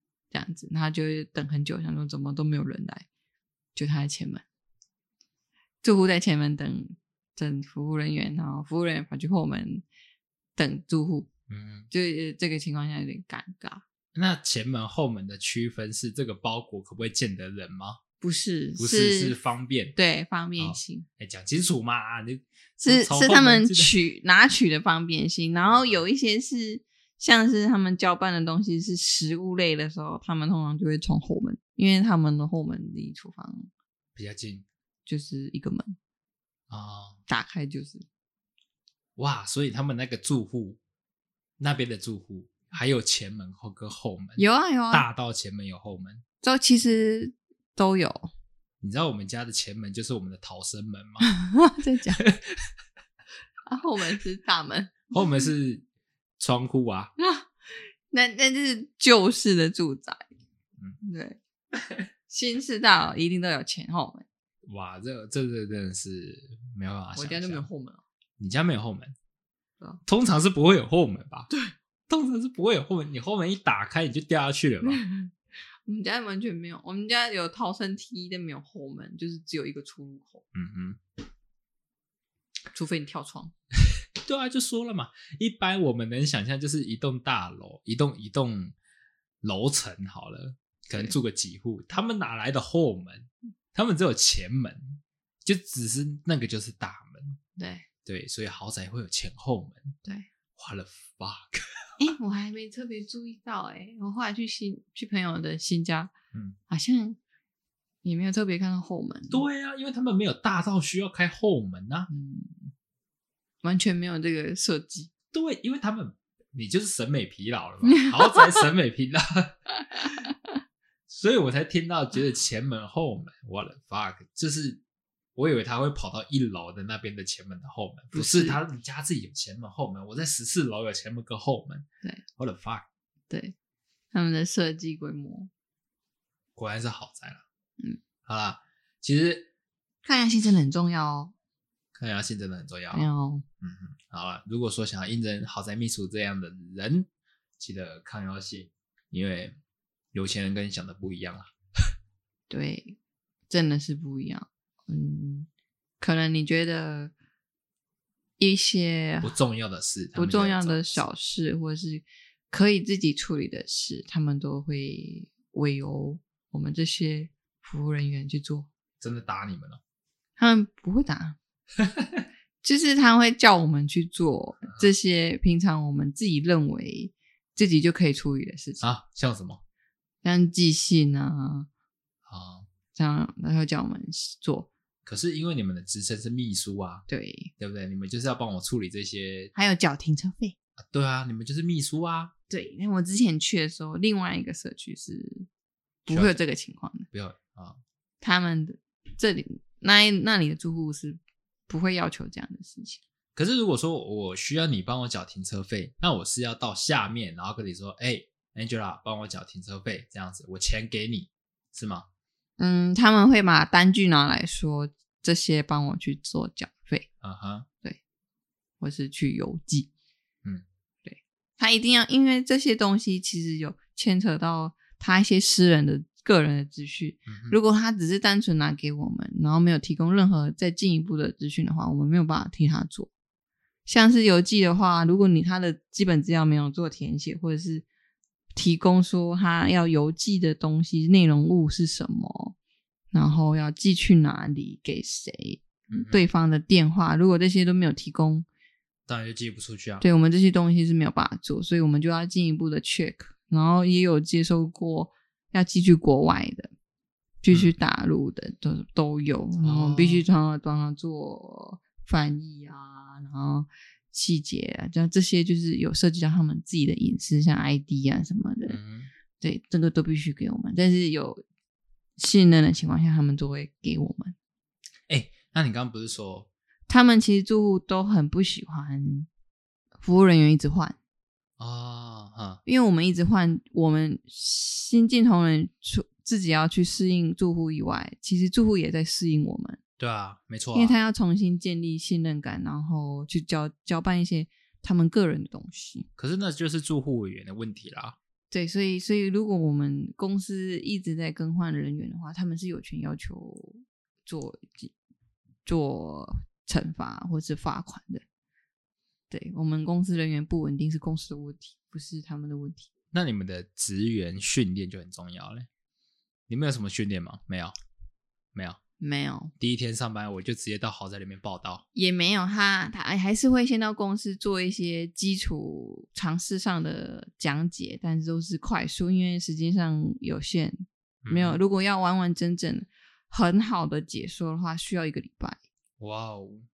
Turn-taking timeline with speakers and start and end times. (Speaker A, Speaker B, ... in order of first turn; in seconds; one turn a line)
Speaker A: 0.3-3.1
Speaker A: 3.7-4.4
Speaker A: 5.8-9.8
Speaker A: 10.6-11.3
Speaker B: 11.5-11.9
Speaker A: 11.9-13.8
Speaker B: 14.1-18.0
Speaker A: 18.2-19.3
Speaker B: 18.8-19.9
Speaker A: 19.9-21.1
Speaker B: 20.6-23.9
Speaker A: 22.8-33.7
Speaker B: 25.7-26.0
Speaker B: 34.1-34.6
Speaker A: 35.0-36.0
Speaker B: 36.7-37.2
Speaker A: 37.3-38.0
Speaker B: 39.2-40.8
Speaker B: 41.6-46.2
Speaker A: 44.4-45.0
Speaker A: 46.4-48.3
Speaker B: 48.8-51.3
Speaker A: 51.2-52.2
Speaker B: 52.2-52.7
Speaker A: 53.7-55.5
Speaker B: 55.1-55.8
Speaker B: 56.4-57.1
Speaker A: 57.2-57.5
Speaker A: 58.1-60.2
Speaker A: 61.0-61.4
Speaker A: 62.3-64.2
Speaker B: 64.7-67.7
Speaker A: 67.1-68.0
Speaker B: 68.4-69.2
Speaker B: 70.0-71.5
Speaker B: 72.1-75.0
Speaker A: 74.8-75.3
Speaker A: 75.9-80.4
Speaker B: 80.5-81.0
Speaker A: 82.7-83.5
Speaker B: 84.2-88.7
Speaker B: 89.4-97.4
Speaker A: 97.6-97.8
Speaker B: 98.0-100.0
Speaker B: 100.5-101.9
Speaker A: 102.0-106.1
Speaker A: 106.7-107.2
Speaker A: 108.0-109.4
Speaker B: 109.3-112.1
Speaker A: 112.1-112.7
Speaker A: 113.6-115.1
Speaker B: 115.3-119.6
Speaker A: 117.8-118.6
Speaker A: 119.8-120.3
Speaker B: 121.1-124.8
Speaker B: 125.3-132.8
Speaker A: 128.1-128.6
Speaker A: 134.1-135.5
Speaker B: 136.6-137.4
Speaker B: 138.2-139.5
Speaker A: 140.0-141.3
Speaker B: 141.9-143.1
Speaker A: 142.9-143.4
Speaker B: 143.6-147.1
Speaker B: 147.6-149.5
Speaker B: 150.1-151.5
Speaker A: 152.5-153.0
Speaker A: 153.5-155.5
Speaker A: 156.0-157.1
Speaker A: 158.4-159.3
Speaker B: 159.2-161.1
Speaker A: 160.1-168.7
Speaker B: 169.0-169.8
Speaker A: 170.4-171.4
Speaker B: 171.8-172.2
Speaker A: 172.6-178.8
Speaker B: 178.8-179.6
Speaker A: 180.2-181.7
Speaker B: 182.2-182.7
Speaker A: 182.9-184.7
Speaker B: 185.0-187.0
Speaker A: 187.1-187.5
Speaker B: 187.6-189.5
Speaker A: 189.5-190.5
Speaker B: 190.8-192.3
Speaker A: 192.5-195.5
Speaker A: 196.1-197.1
Speaker B: 196.1-196.4
Speaker B: 197.1-197.8
Speaker A: 198.2-203.0
Speaker B: 203.3-212.1
Speaker A: 212.6-217.1
Speaker B: 217.2-217.7
Speaker A: 218.8-219.9
Speaker A: 221.0-233.1
Speaker B: 227.3-227.6
Speaker A: 233.9-237.8
Speaker A: 238.5-242.6
Speaker A: 243.1-248.4
Speaker B: 245.9-246.2
Speaker B: 249.1-250.0
Speaker A: 250.0-256.7
Speaker A: 257.4-268.8
Speaker B: 259.6-260.2
Speaker B: 268.7-269.1
Speaker A: 269.4-271.4
Speaker A: 272.2-274.3
Speaker B: 275.1-276.5
Speaker A: 276.9-279.3
Speaker A: 280.0-281.0
Speaker B: 281.6-282.6
Speaker A: 282.6-289.8
Speaker B: 290.0-290.9
Speaker A: 290.7-296.1
Speaker B: 296.2-298.1
Speaker A: 298.5-304.9
Speaker A: 305.6-308.2
Speaker A: 309.3-312.9
Speaker B: 313.1-315.7
Speaker B: 316.5-317.7
Speaker B: 318.5-318.8
Speaker A: 319.0-319.5
Speaker B: 319.6-321.8
Speaker A: 321.9-335.6
Speaker B: 331.2-331.6
Speaker B: 336.0-336.6